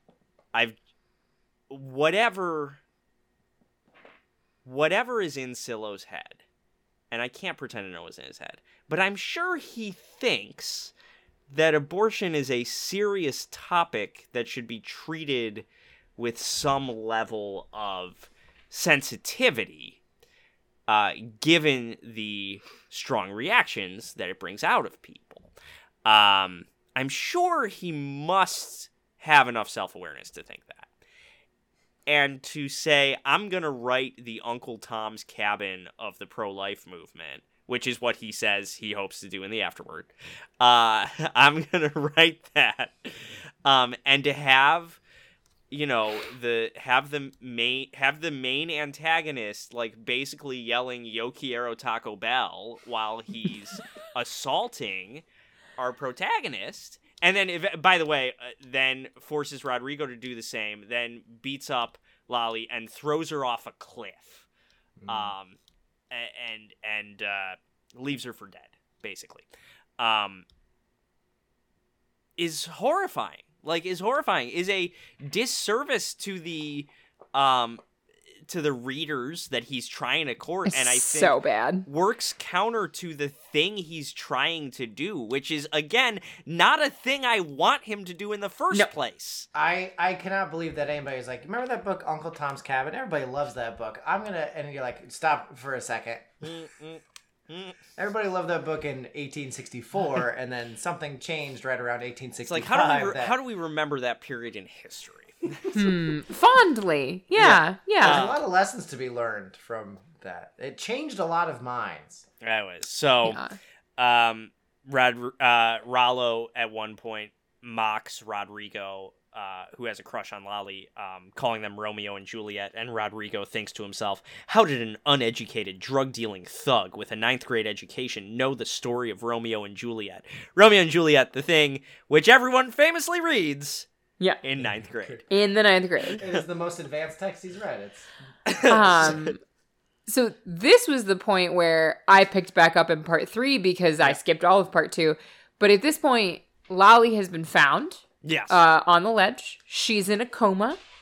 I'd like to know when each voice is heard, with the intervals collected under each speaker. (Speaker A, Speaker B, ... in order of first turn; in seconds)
Speaker A: 1.7-2.8, 4.7-6.4, 7.1-10.9, 11.5-15.7, 16.2-20.0, 20.9-25.5, 26.1-30.9, 32.1-45.0, 45.7-55.2, 55.8-64.5, 65.1-65.6, 66.1-69.5, 70.0-70.5, 72.4-77.8, 78.5-89.5, 96.4-97.8, 102.5-105.6, 107.4-108.4, 112.4-113.4, 114.0-133.9, 134.4-135.2, 138.5-139.3, 148.2-148.6
Speaker B: 65.0-65.3, 89.5-96.3, 98.0-103.3, 108.0-112.3, 134.6-135.2, 136.2-138.1
Speaker C: 80.7-81.9, 105.7-108.2, 113.2-113.6, 135.3-136.2, 138.7-139.4, 140.1-150.8